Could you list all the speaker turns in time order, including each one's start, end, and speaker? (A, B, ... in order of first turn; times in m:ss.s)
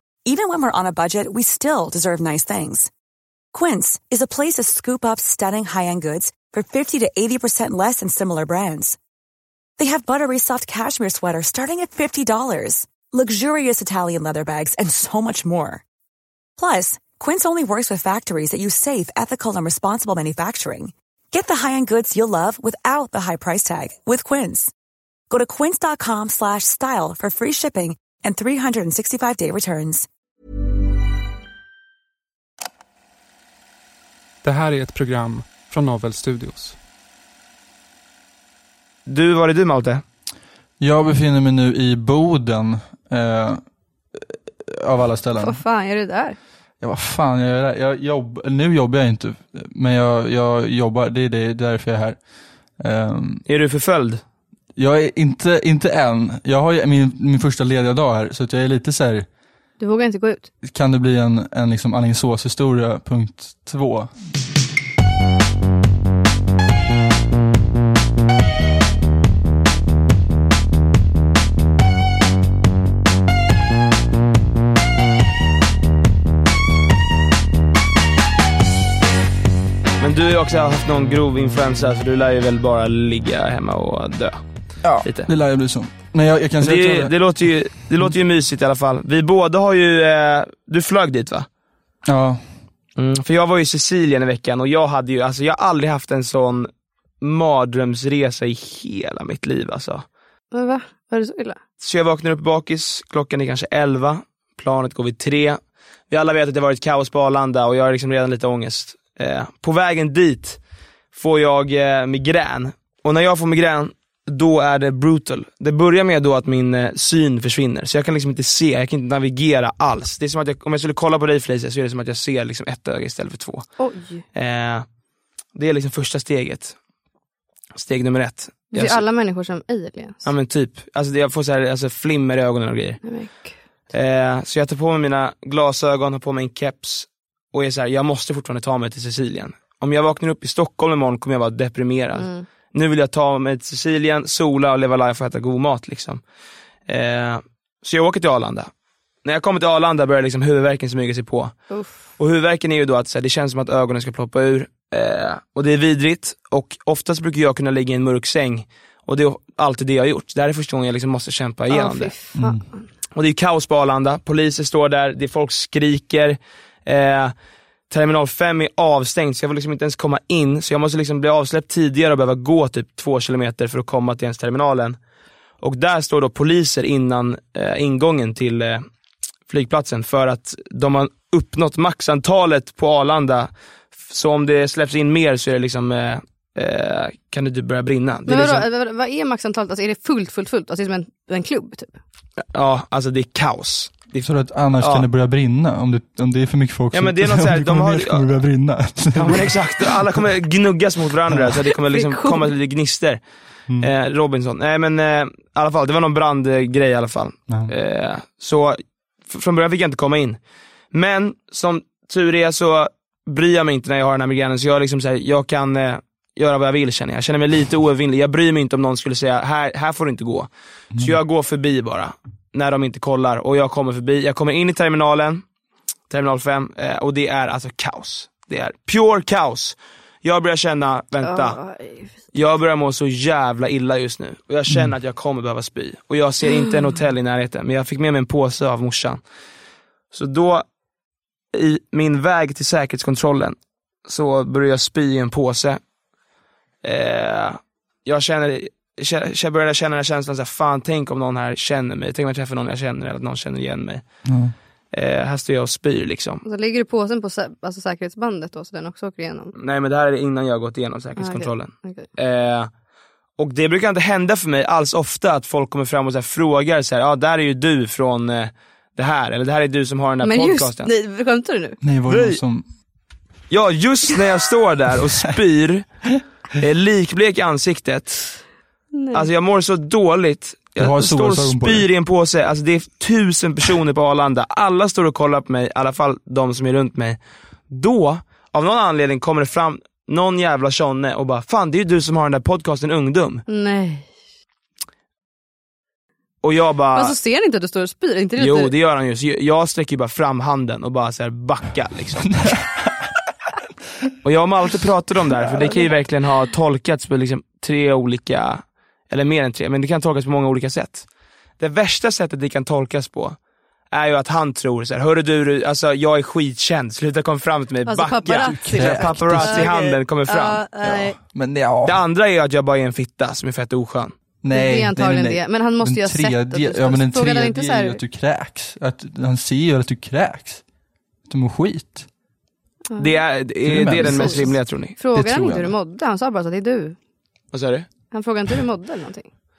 0:00.2-0:02.9 A
0:03.5-0:09.0 A
0:09.8-0:15.8 A
0:16.6-0:24.7 A
0:25.3-0:30.1 A
0:34.4-0:36.8 B
0:39.1-0:40.0 C
0:40.8-0:43.6 D
0:44.1-0:45.6 D
0:45.4-0:46.4 E
0:46.8-0:52.2 D
0:52.8-0:53.4 D
0:53.5-0:54.2 C
0:54.8-0:59.2 D
0:59.8-1:00.5 E
1:00.6-1:04.1 D
1:20.0-1:24.4 C
1:24.8-1:27.1 D
1:25.0-1:25.3 C
1:26.6-1:31.5 C
1:32.0-1:32.4 D
1:33.0-1:36.7 C
1:37.2-1:40.0 C
1:40.5-1:41.6 E
1:41.8-1:50.6 C
1:51.1-2:03.7 C
2:03.8-2:04.2 E
2:04.3-2:04.8 C
2:05.5-2:06.8 C
2:07.7-2:09.0 C
2:08.7-2:10.3 E
2:10.2-2:13.0 C
2:13.0-2:13.6 E
2:13.9-2:26.2 C
2:22.2-2:22.4 E
2:26.9-2:28.7 C
2:29.2-2:31.6 C
2:31.7-2:32.0 E
2:32.2-2:42.1 C
2:41.7-2:42.9 E
2:42.3-2:42.6 D
2:43.1-2:47.3 C
2:47.9-2:55.0 C
2:55.6-2:58.8 C
2:59.5-3:08.6 C
3:08.3-3:12.0 E
3:12.5-3:15.0 C
3:14.2-3:20.2 D
3:16.9-3:18.2 C
3:19.1-3:23.2 C
3:21.9-3:22.5 E
3:23.8-3:30.4 C
3:30.9-3:45.4 C
3:46.1-3:51.6 C
3:51.2-3:52.1 E
3:52.3-3:59.2 C
4:00.1-4:00.6 C
4:01.5-4:05.8 C
4:06.8-4:14.0 C
4:14.3-4:14.5 D
4:14.9-4:16.4 C
4:16.4-4:19.5 E
4:19.6-4:22.7 C
4:21.2-4:22.1 E
4:23.4-4:30.9 C
4:30.2-4:31.8 E
4:31.8-4:32.6 D
4:32.1-4:32.4 C
4:33.5-4:35.8 C
4:36.6-4:38.3 C
4:38.9-4:39.3 E
4:39.1-4:47.2 C
4:40.8-4:41.9 D
4:47.7-4:53.4 C
4:53.5-4:54.1 E
4:56.4-4:57.2 C
4:56.9-4:58.7 E
4:58.4-5:02.4 C
5:02.4-5:03.1 D
5:04.2-5:11.0 C
5:05.4-5:05.8 D
5:11.6-5:13.4 C
5:13.9-5:20.6 C
5:17.8-5:21.2 E
5:18.3-5:19.7 D
5:20.8-5:22.0 D
5:21.8-5:24.1 C
5:24.4-5:30.6 D
5:24.5-5:28.0 E
5:31.2-5:32.1 D
5:32.9-5:33.2 E
5:33.0-5:35.0 C
5:33.6-5:34.6 D
5:34.0-5:37.0 E
5:35.1-5:35.7 D
5:37.5-5:37.9 C
5:38.1-5:39.3 E